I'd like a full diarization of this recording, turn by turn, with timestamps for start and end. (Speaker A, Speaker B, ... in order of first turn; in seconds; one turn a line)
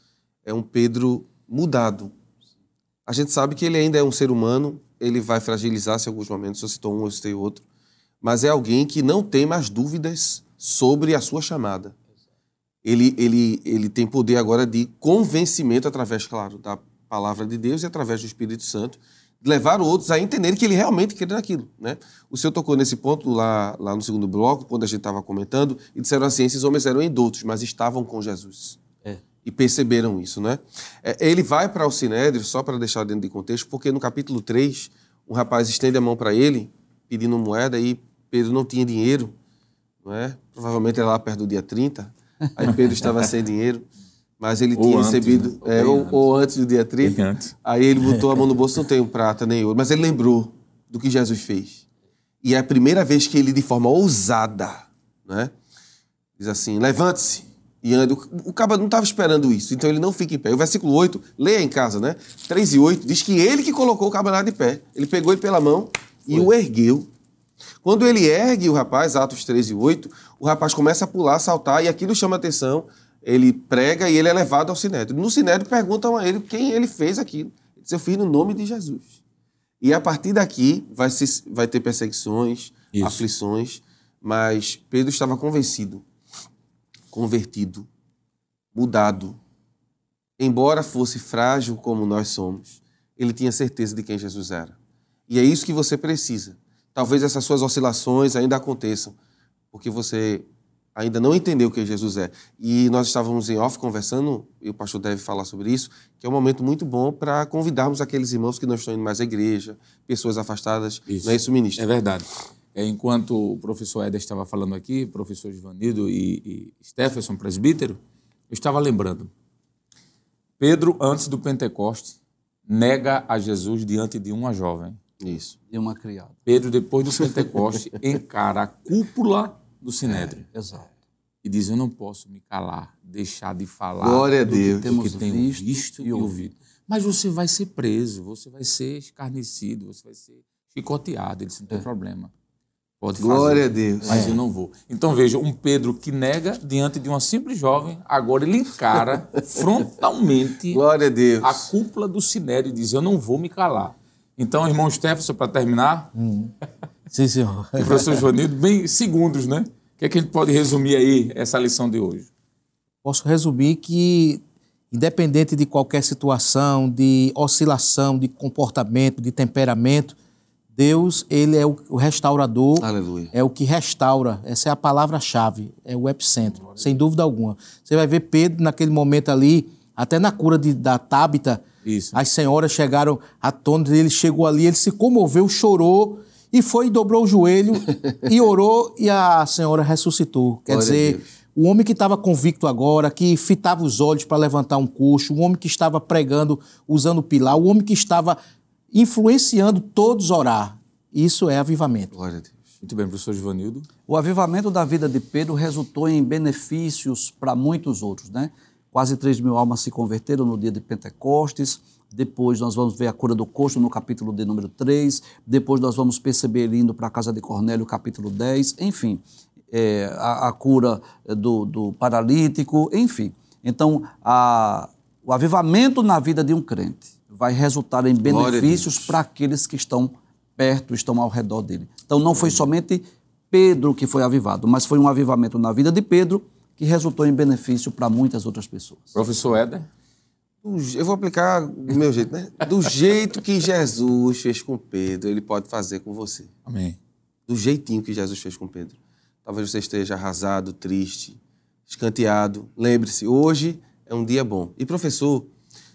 Speaker A: 0.4-2.1
Speaker A: 3.0-7.6
Speaker A: 8.2-11.9
Speaker A: 12.8-28.8
Speaker A: 29.4-39.3
Speaker A: 40.0-43.9
Speaker A: 44.4-51.8
Speaker B: 44.7-46.2
Speaker B: 47.0-47.5
Speaker A: 52.4-55.5
Speaker A: 56.4-67.1
Speaker A: 67.8-79.1
Speaker A: 79.8-86.0
Speaker B: 82.9-83.2
Speaker A: 87.1-87.9
Speaker A: 88.7-89.4
Speaker A: 90.4-94.8
Speaker A: 95.3-99.2
Speaker A: 99.7-111.8
Speaker B: 111.1-118.0
Speaker B: 118.5-119.3
Speaker B: 120.6-122.2
Speaker B: 122.7-125.0
Speaker A: 125.2-125.5
Speaker C: 125.7-126.3
Speaker B: 126.5-130.4
Speaker C: 130.5-130.9
Speaker B: 131.4-142.3
Speaker A: 134.0-135.0
Speaker C: 134.4-136.3
Speaker B: 143.0-150.8
Speaker A: 143.2-144.3
Speaker D: 144.1-144.3
Speaker A: 150.7-151.7
Speaker B: 151.4-156.1
Speaker D: 156.2-156.5
Speaker D: 157.1-158.2
Speaker B: 157.8-162.3
Speaker D: 163.0-170.2
Speaker D: 170.8-198.4
Speaker A: 172.8-173.3
Speaker B: 181.8-182.2
Speaker A: 190.7-191.2
Speaker D: 198.9-202.1
Speaker A: 202.1-202.6
Speaker B: 202.8-203.9
Speaker C: 204.1-239.2
Speaker A: 228.2-229.1
Speaker B: 239.1-239.9
Speaker A: 240.6-246.5
Speaker B: 246.7-247.0
Speaker A: 247.5-255.5